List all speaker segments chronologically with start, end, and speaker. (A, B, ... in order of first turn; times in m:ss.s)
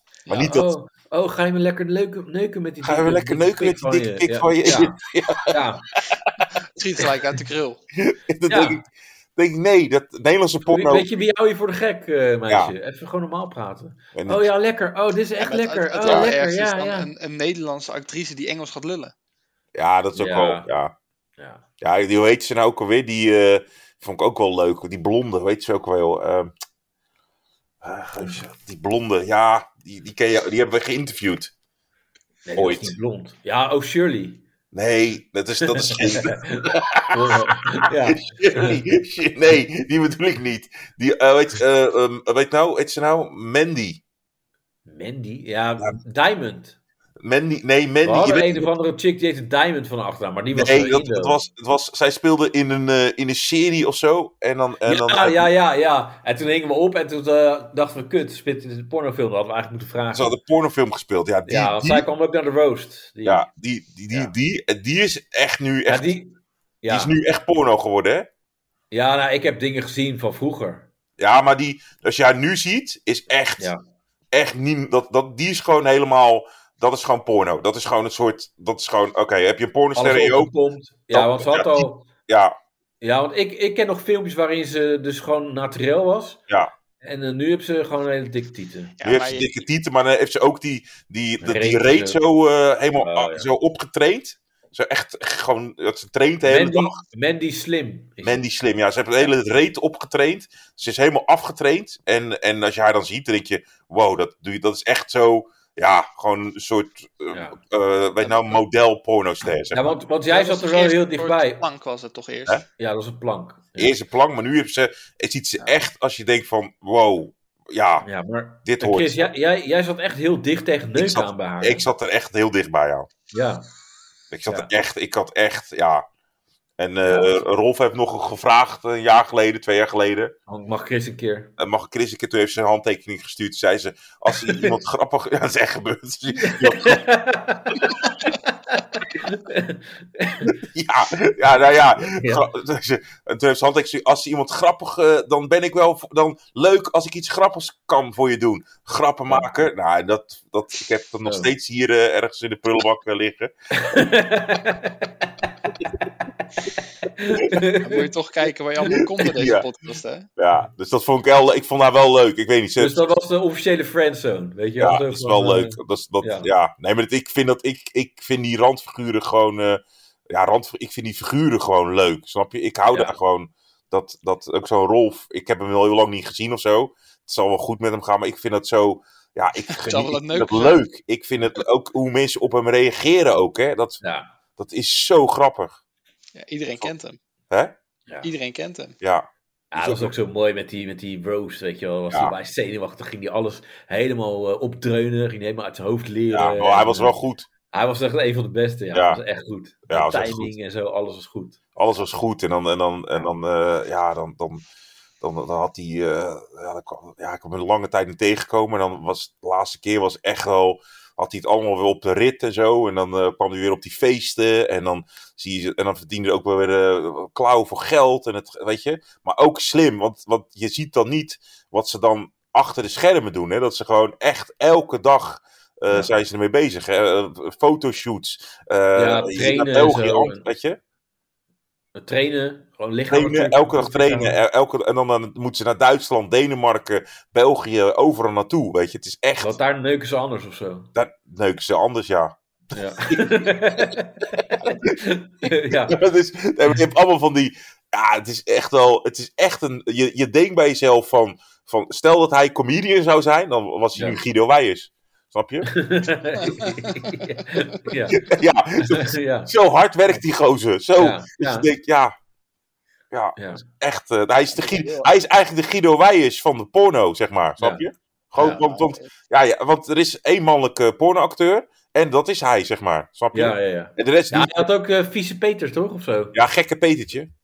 0:00.2-0:00.5 A
0:00.3-0:00.7 B
0:00.4-0:05.0 C
0:02.8-0:05.6 B
0:05.5-0:05.9 C
0:06.1-0:06.5 B
0:06.7-0:07.8 A
0:07.9-0:11.1 B
0:08.5-0:08.8 C
0:10.7-0:17.1 C
0:12.5-0:12.7 B
0:14.1-0:14.4 B
0:15.4-0:19.1 A
0:19.7-0:20.9 B
0:20.1-0:20.7 C
0:21.4-0:21.6 C
0:21.8-0:26.5 B
0:27.8-0:31.5 B
0:32.4-0:34.4 C
0:32.6-0:32.9 B
0:34.7-0:44.0 B
0:35.6-0:38.8 C
0:44.9-0:46.8 C
0:47.2-0:48.7 B
0:48.0-0:51.4 C
0:50.5-0:55.4 B
0:54.8-1:00.4 C
1:00.1-1:02.1 B
1:01.4-1:03.4 C
1:03.2-1:06.1 B
1:05.9-1:07.2 C
1:06.9-1:08.3 B
1:08.9-1:10.9 C
1:11.2-1:13.7 B
1:14.3-1:20.5 B
1:20.0-1:22.1 C
1:21.1-1:22.5 B
1:23.0-1:26.4 C
1:27.0-1:28.9 C
1:29.0-1:29.6 A
1:29.0-1:37.0 B
1:31.4-1:32.2 C
1:33.0-1:33.5 C
1:36.4-1:38.4 C
1:38.2-1:49.9 B
1:47.3-1:47.6 C
1:48.2-1:48.6 A
1:49.7-1:51.6 C
1:50.3-1:52.6 A
1:52.8-1:53.9 C
1:53.8-1:58.1 B
1:58.0-2:01.9 C
1:58.6-1:59.2 B
2:01.0-2:03.1 B
2:03.3-2:03.7 C
2:04.3-2:06.0 B
2:06.8-2:10.3 B
2:07.0-2:07.4 C
2:10.5-2:11.5 C
2:11.6-2:17.1 B
2:14.3-2:14.8 C
2:16.4-2:20.6 C
2:20.5-2:33.5 B
2:22.0-2:22.4 C
2:33.7-2:35.5 C
2:37.2-2:38.1 C
2:37.8-2:40.2 A
2:38.9-2:39.6 B
2:40.4-2:43.1 B
2:42.8-2:46.5 C
2:44.8-3:04.0 B
2:59.7-3:00.8 A
3:04.0-3:04.3 C
3:04.6-3:05.8 B
3:06.3-3:07.2 A
3:08.2-3:08.9 A
3:09.0-3:10.1 B
3:09.7-3:17.1 C
3:16.3-3:17.5 B
3:17.7-3:21.6 C
3:18.9-3:19.2 B
3:19.9-3:20.5 B
3:21.7-3:24.6 B
3:25.2-3:50.8 B
3:45.9-3:46.1 C
3:49.0-3:50.4 C
3:51.9-3:54.4 C
3:53.1-3:59.6 B
3:59.4-4:00.9 C
4:00.9-4:03.9 B
4:02.7-4:06.0 C
4:04.6-4:04.9 B
4:05.7-4:15.7 B
4:13.9-4:14.2 C
4:15.6-4:19.5 C
4:18.1-4:22.1 B
4:21.0-4:21.7 C
4:23.1-4:34.7 B
4:23.4-4:23.6 C
4:24.6-4:25.1 A
4:27.6-4:27.8 C
4:28.4-4:29.0 A
4:33.3-4:36.3 C
4:36.3-4:37.3 B